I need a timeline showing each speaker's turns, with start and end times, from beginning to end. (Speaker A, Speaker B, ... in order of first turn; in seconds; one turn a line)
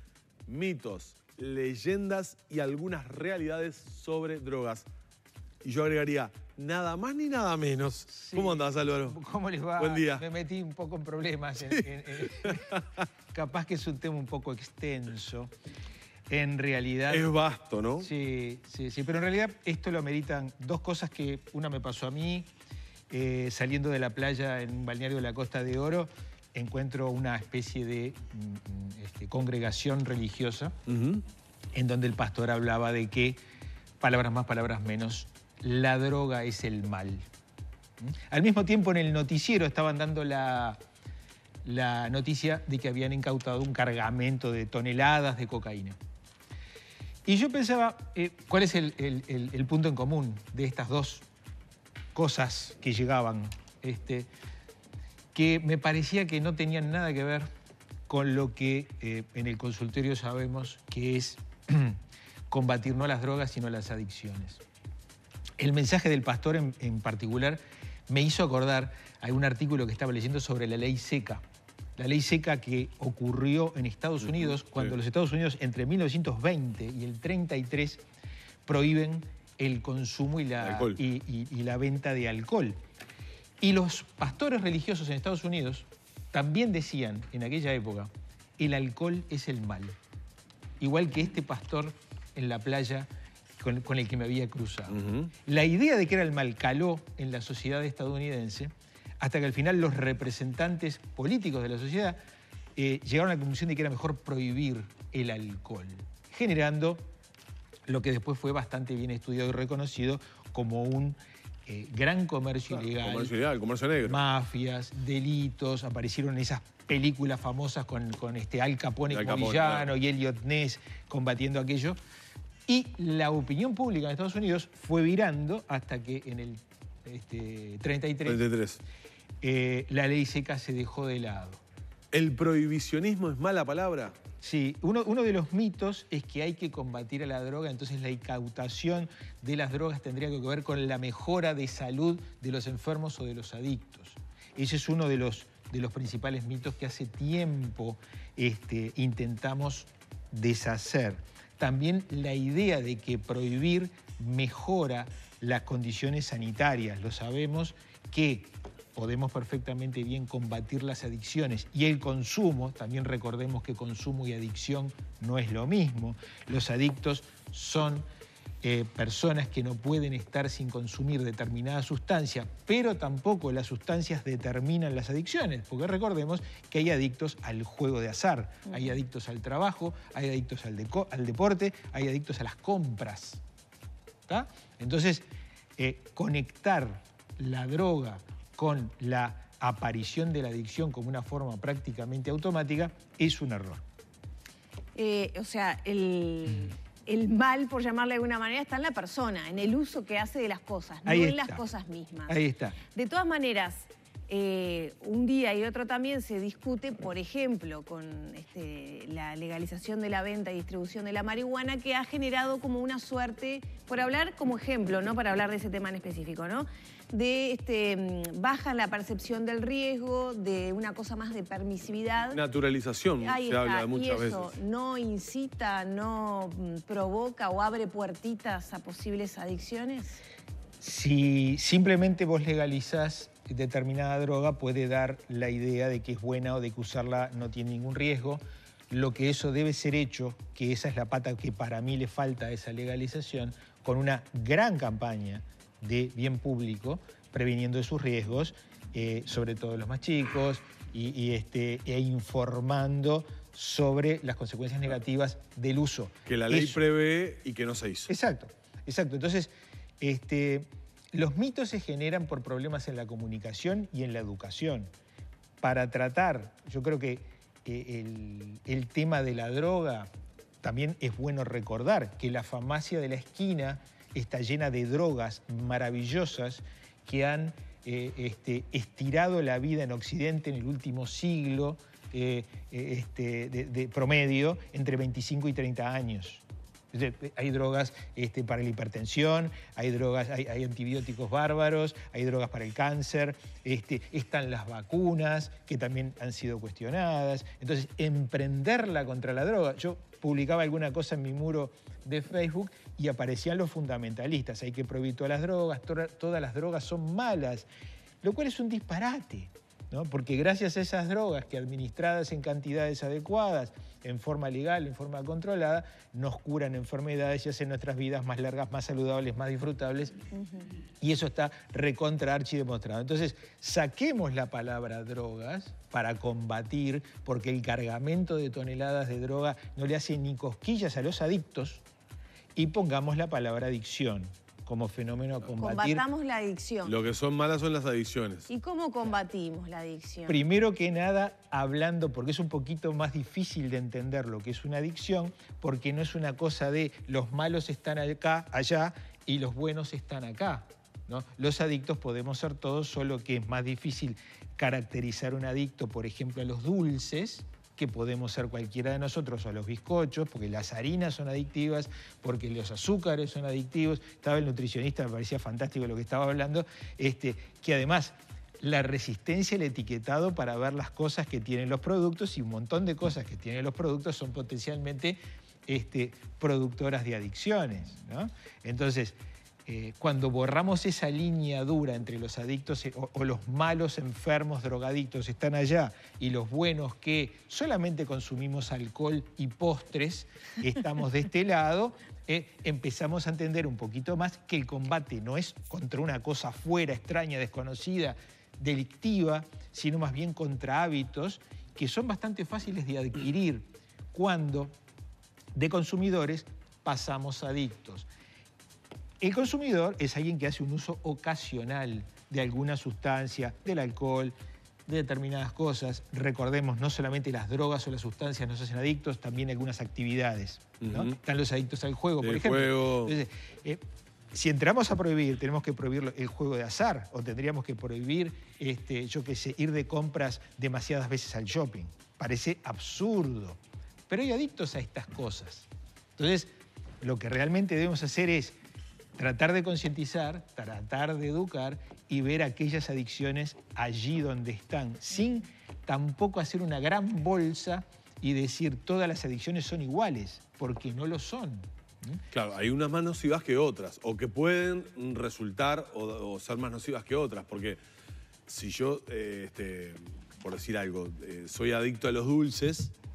Speaker A: 0.5-4.8
Speaker A: 5.6-9.2
Speaker B: 8.1-12.7
Speaker A: 9.8-10.2
Speaker A: 11.8-12.8
Speaker B: 13.3-15.5
Speaker B: 16.3-17.3
Speaker A: 17.1-18.1
Speaker B: 18.0-22.5
Speaker B: 23.1-30.8
Speaker A: 30.9-31.2
Speaker B: 31.7-33.4
Speaker B: 34.0-37.2
Speaker B: 38.0-40.8
Speaker B: 41.6-46.0
Speaker B: 47.2-51.2
Speaker B: 52.1-54.3
Speaker B: 55.3-57.5
Speaker B: 58.1-62.0
Speaker B: 62.5-64.6
Speaker B: 65.6-71.4
Speaker B: 72.0-78.0
Speaker B: 78.7-82.8
Speaker A: 80.6-81.0
Speaker B: 83.6-89.9
Speaker B: 90.8-93.1
Speaker B: 93.6-102.2
Speaker A: 94.9-95.3
Speaker B: 102.8-107.0
Speaker B: 107.9-113.3
Speaker A: 112.8-114.2
Speaker B: 114.0-122.0
Speaker A: 119.1-119.9
Speaker B: 122.7-128.4
Speaker A: 128.2-128.8
Speaker B: 129.4-131.6
Speaker A: 132.1-134.2
Speaker B: 134.4-168.0
Speaker B: 168.6-183.4
Speaker B: 184.3-185.2
Speaker B: 185.8-193.8
Speaker C: 194.9-202.4
Speaker B: 201.0-201.6
Speaker B: 202.3-202.8
Speaker C: 202.9-222.4
Speaker A: 222.3-224.5
Speaker C: 223.2-230.2
Speaker B: 230.8-256.8
Speaker A: 256.2-258.1
Speaker B: 258.1-264.9
Speaker B: 265.6-270.1
Speaker B: 270.6-307.7
Speaker B: 308.2-320.1
Speaker B: 321.0-331.8
Speaker B: 332.5-336.0
Speaker C: 335.6-336.9
Speaker A: 336.8-338.5
Speaker C: 338.5-340.4
Speaker B: 340.3-404.7
Speaker B: 405.5-408.1
Speaker B: 409.2-414.3
Speaker B: 414.9-423.8
Speaker A: 420.8-421.1
Speaker A: 422.2-423.1
Speaker B: 424.3-433.6
Speaker B: 434.1-436.5
Speaker B: 437.0-438.5
Speaker B: 439.2-452.2
Speaker A: 452.3-457.8
Speaker A: 458.5-462.9